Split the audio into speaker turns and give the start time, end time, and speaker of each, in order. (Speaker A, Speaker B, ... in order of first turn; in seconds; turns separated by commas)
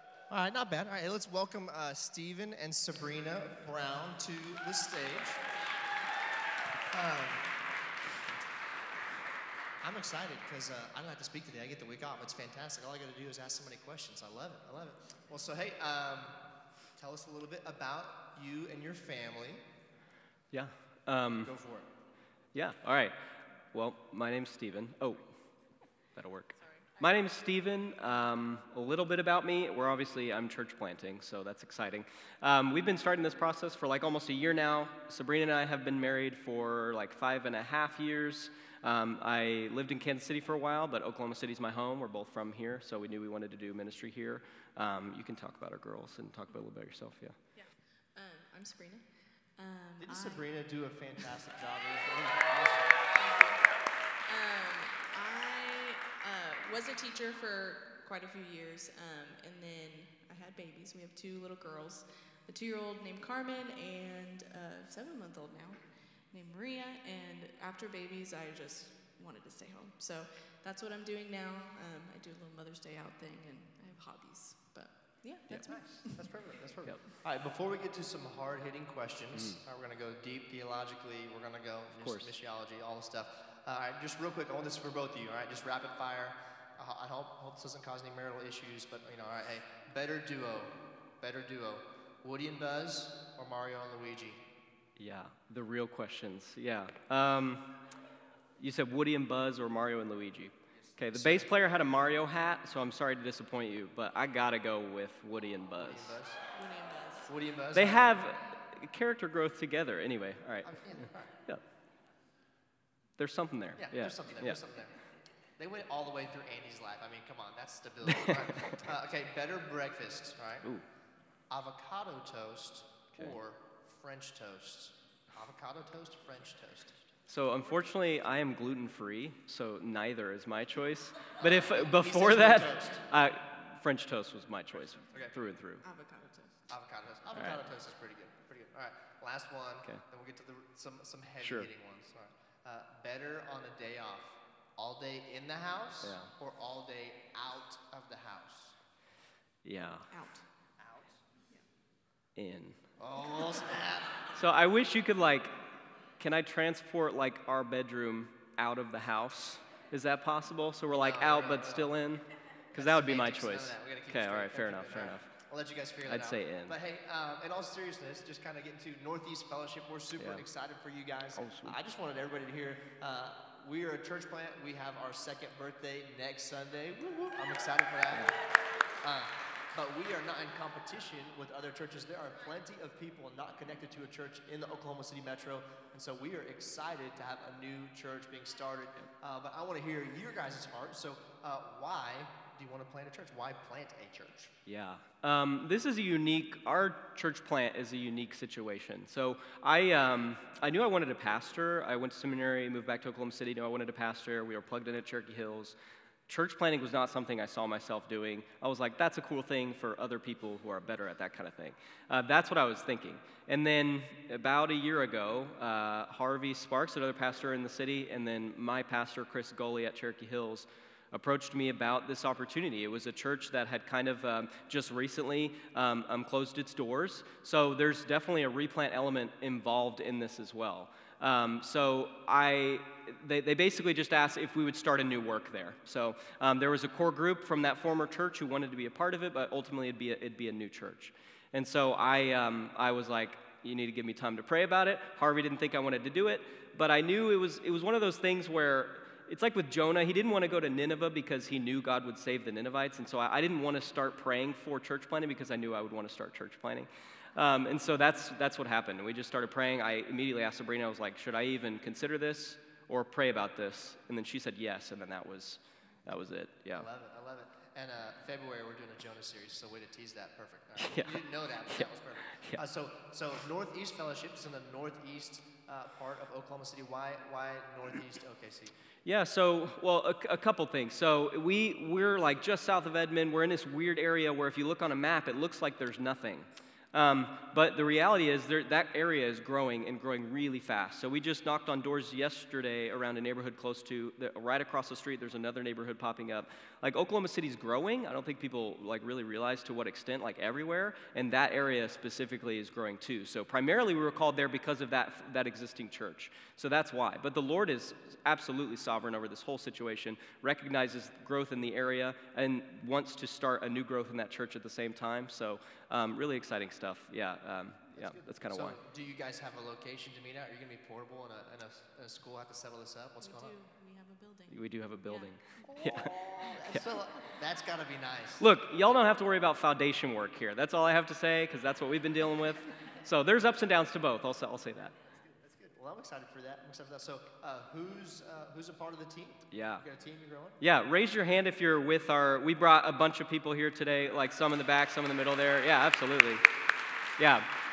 Speaker A: 0.3-5.4, Speaker A: 6.9-7.5, Speaker A: 9.8-16.4, Speaker A: 17.0-19.6, Speaker B: 20.5-21.5, Speaker A: 21.4-21.9, Speaker B: 22.5-23.1, Speaker B: 23.7-25.3, Speaker B: 26.1-47.4, Speaker C: 47.5-50.5, Speaker A: 50.0-53.1, Speaker C: 53.2-53.7, Speaker C: 54.2-76.4, Speaker A: 75.5-94.4, Speaker B: 79.3-79.6, Speaker B: 81.9-82.3, Speaker B: 95.0-97.8, Speaker B: 98.6-106.2, Speaker A: 100.9-101.6, Speaker A: 105.8-106.4, Speaker C: 106.5-107.3, Speaker A: 107.3-108.2, Speaker B: 107.7-111.6, Speaker A: 110.6-111.3, Speaker B: 113.2-114.6, Speaker A: 113.8-115.0, Speaker A: 115.6-120.7, Speaker B: 118.1-118.8, Speaker A: 121.5-127.1, Speaker B: 127.3-135.8, Speaker A: 131.4-133.1, Speaker A: 135.1-135.4, Speaker C: 135.8-136.7, Speaker A: 136.7-148.8, Speaker B: 141.4-141.7, Speaker B: 146.0-146.3, Speaker B: 149.6-150.1, Speaker C: 150.1-150.4, Speaker A: 150.8-151.2, Speaker B: 152.4-152.8, Speaker A: 153.0-154.3, Speaker B: 154.3-155.5, Speaker B: 156.2-165.3, Speaker A: 160.9-162.0, Speaker A: 162.8-178.4, Speaker B: 166.1-166.8, Speaker B: 170.2-170.4, Speaker B: 171.4-171.8, Speaker B: 178.1-178.4, Speaker A: 179.0-194.6, Speaker B: 194.7-205.8, Speaker B: 206.3-266.9, Speaker A: 266.7-278.8, Speaker B: 270.8-271.2, Speaker B: 271.8-272.6, Speaker B: 279.1-318.8, Speaker A: 317.9-323.5, Speaker C: 323.2-325.6, Speaker B: 324.5-326.1, Speaker A: 325.6-328.5, Speaker B: 328.4-334.9, Speaker A: 335.3-340.6, Speaker B: 339.5-339.8, Speaker B: 340.6-346.4, Speaker B: 347.2-347.5